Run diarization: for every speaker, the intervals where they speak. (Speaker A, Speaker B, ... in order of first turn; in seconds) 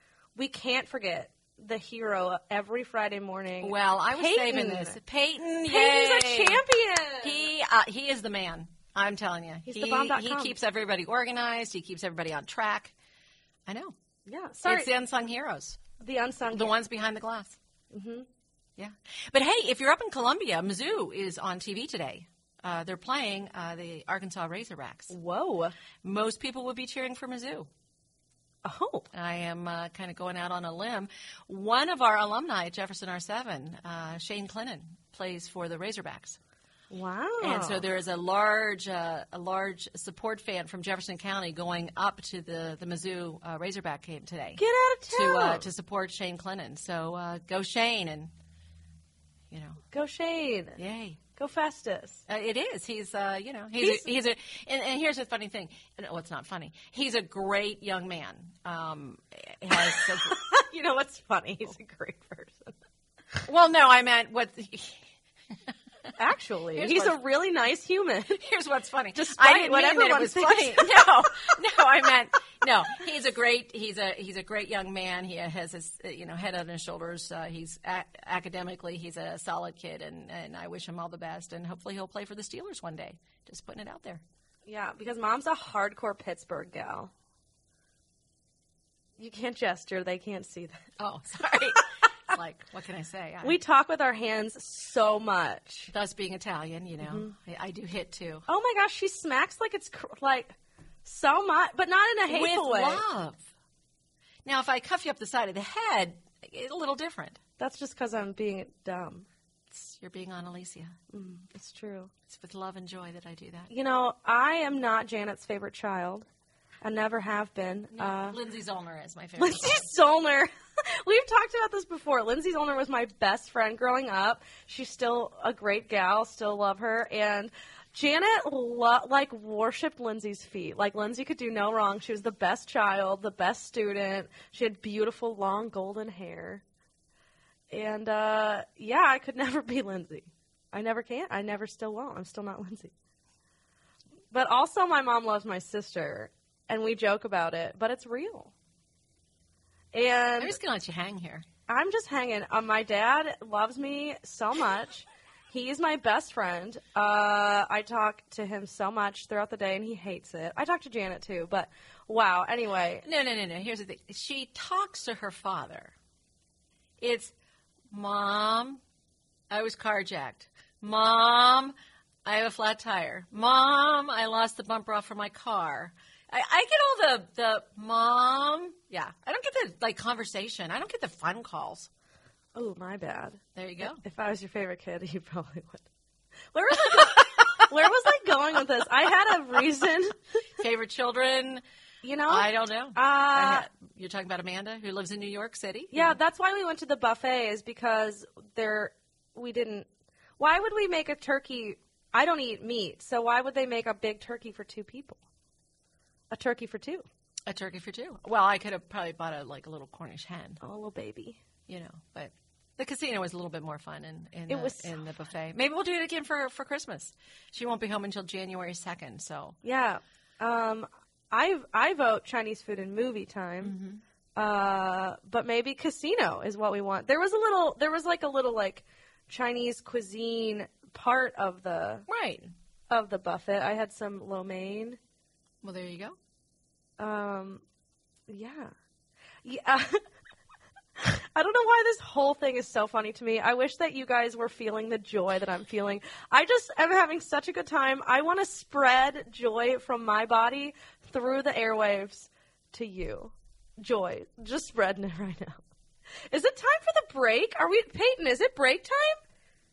Speaker A: 0.3-5.0, 5.7-7.5, 9.7-10.5, 14.2-14.9, 16.0-16.7, 17.9-18.3, 25.1-25.7, 28.6-29.1, 36.9-37.8, 44.6-45.7, 49.9-50.8, 51.4-52.2, 53.8-54.0, 59.8-62.7, 66.2-68.4, 69.1-71.0, 84.7-87.1, 89.2-90.8, 93.4-95.9, 97.0-97.3, 98.5-103.0, 107.6-109.3, 111.1-112.1, 113.7-116.2, 116.8-118.4, 119.4-136.6, 137.7-142.9, 144.3-148.5, 149.9-150.6, 151.7-163.0, 182.5-185.8, 186.5-190.2, 192.0-193.7, 195.9-199.9, 200.4-205.2, 206.3-207.0, 210.6-211.4, 214.5-214.9, 219.6-223.7, 224.3-232.1, 232.9-235.0, 237.0-237.6, 238.3-238.7, 239.4-240.0, 241.0-255.6, 256.3-259.2
Speaker B: 3.6-6.6, 7.2-12.9, 13.7-13.9, 14.6-15.8, 16.5-17.6, 18.8-25.1, 26.0-27.7, 29.1-36.4, 37.4-48.3, 49.5-49.8, 50.8-51.2, 52.3-60.4, 63.5-65.0, 66.7-67.2, 68.3-84.2, 91.0-93.6, 95.9-98.4, 102.3-103.5, 104.4-107.4, 109.7-111.0, 112.3-113.7, 117.9-119.8, 150.4-151.4, 163.0-165.9, 167.0-167.3, 167.9-168.8, 169.5-171.7, 172.2-181.9, 183.6-184.0, 190.6-191.6, 192.3-196.2, 207.5-210.6, 211.7-219.6, 223.6-224.0, 232.1-232.5, 235.6-236.2